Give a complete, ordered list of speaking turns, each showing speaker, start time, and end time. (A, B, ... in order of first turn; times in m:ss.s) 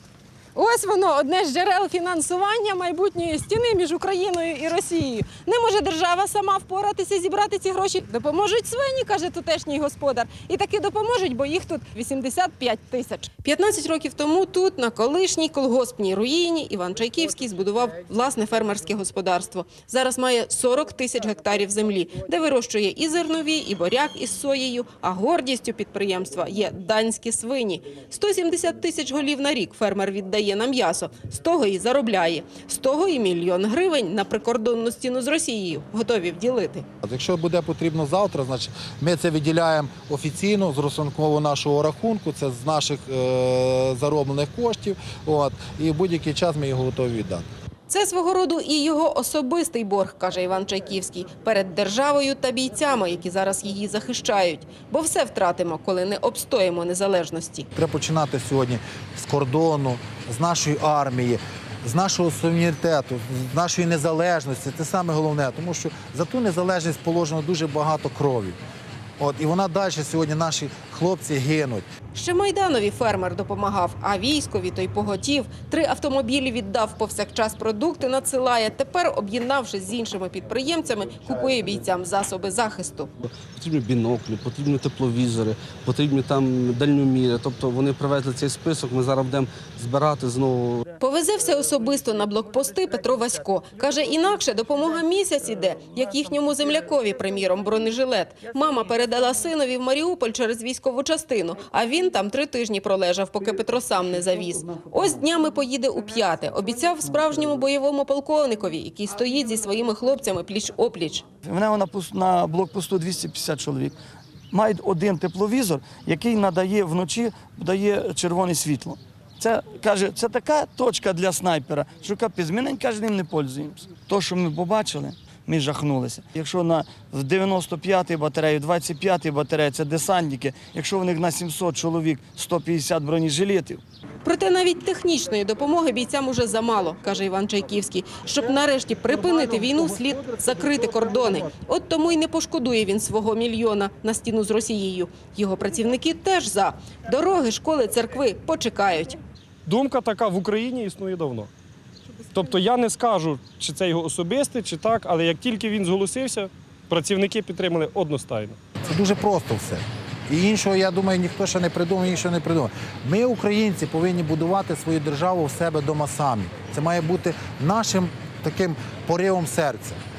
0:00.5-0:36.8 A
0:37.0-0:47.4 B
0:47.9-0:57.7 A
0:57.7-1:08.6 B
1:09.2-1:11.8 B
1:12.1-1:23.1 A
1:23.2-1:30.8 C
1:31.0-1:51.2 A
1:51.4-1:54.0 D
1:54.5-2:13.8 D
2:14.2-2:29.2 A
2:29.7-2:31.5 E
2:32.3-2:38.6 E
2:38.9-2:50.0 B